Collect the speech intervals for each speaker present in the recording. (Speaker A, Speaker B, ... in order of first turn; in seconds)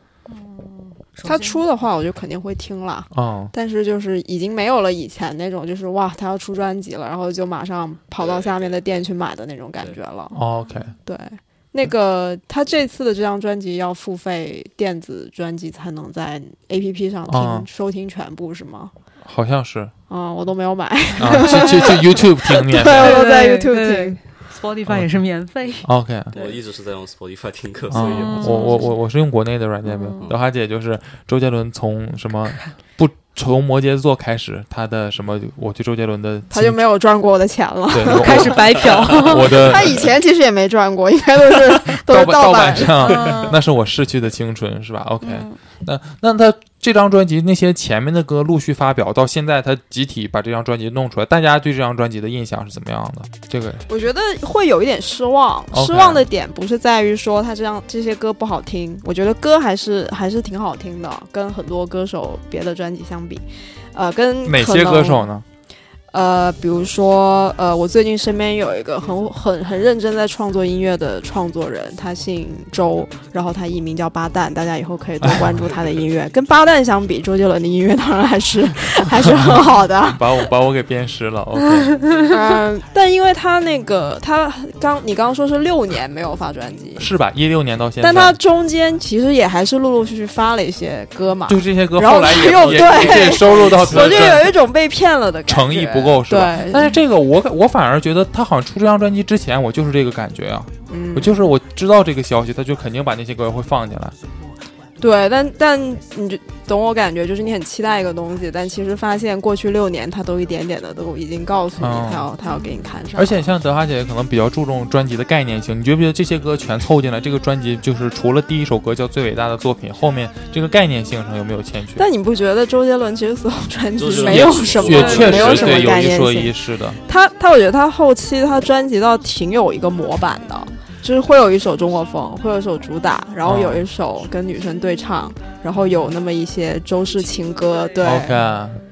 Speaker A: 0.3-1.6, 22.9-26.5, 27.9-28.9, 29.8-30.2, 38.1-39.6, 43.0-43.6, 45.2-45.6, 137.5-138.2
Speaker B: 1.2-10.4, 11.1-18.9, 20.1-24.2, 36.5-43.3, 53.9-65.3, 66.1-80.5, 82.3-87.1, 88.0-97.0, 100.9-101.5, 105.0-113.4, 122.0-138.4
Speaker C: 3.1-3.5, 10.3-10.9, 17.3-17.7, 19.2-19.9, 21.2-23.3, 25.8-26.4, 27.9-36.8, 37.9-40.1, 42.0-53.8, 55.7-56.2, 64.4-65.4, 75.2-75.7, 79.3-82.0, 87.0-88.4, 91.5-94.5, 95.5-104.2, 111.8-112.3, 113.1-122.0, 124.2-127.0, 133.4-133.8, 138.0-138.8
Speaker D: 8.2-8.8, 26.3-28.9, 92.4-94.4, 124.0-126.0